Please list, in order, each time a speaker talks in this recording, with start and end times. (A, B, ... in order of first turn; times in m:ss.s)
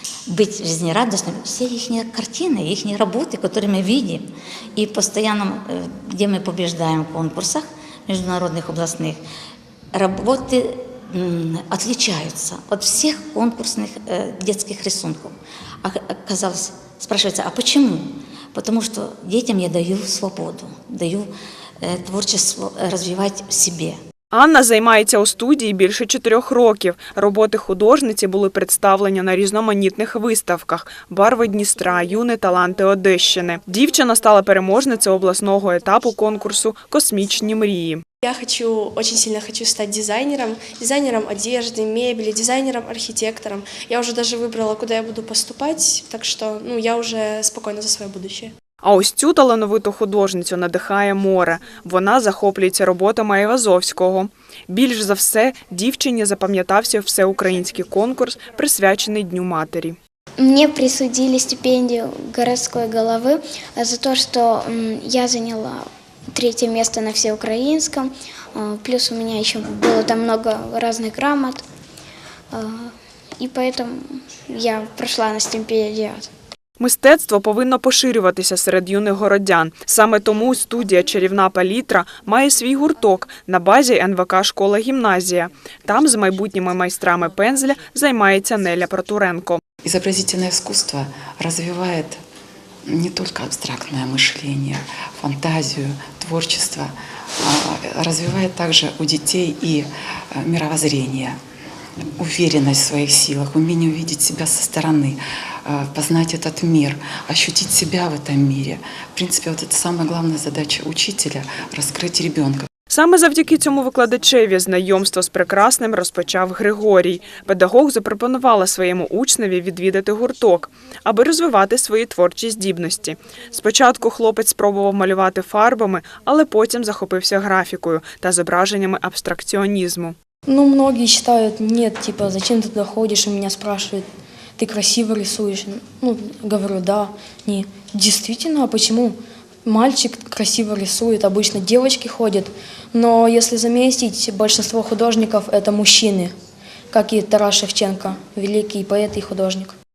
0:00.3-0:09.2 A
0:09.9-0:21.3 A
0:21.8-0:24.0 A
0:24.3-0:38.0 B
0:38.2-0:48.5 C
0:48.8-1:00.0 B
1:00.4-1:11.6 D
1:12.5-1:16.3 D
1:16.8-1:29.6 B
1:29.8-1:32.2 E
1:32.9-1:41.4 E
1:42.2-1:52.7 E
1:52.9-2:10.2 B
2:10.5-2:14.0 F
2:14.6-2:26.3 F
2:26.9-2:29.8 F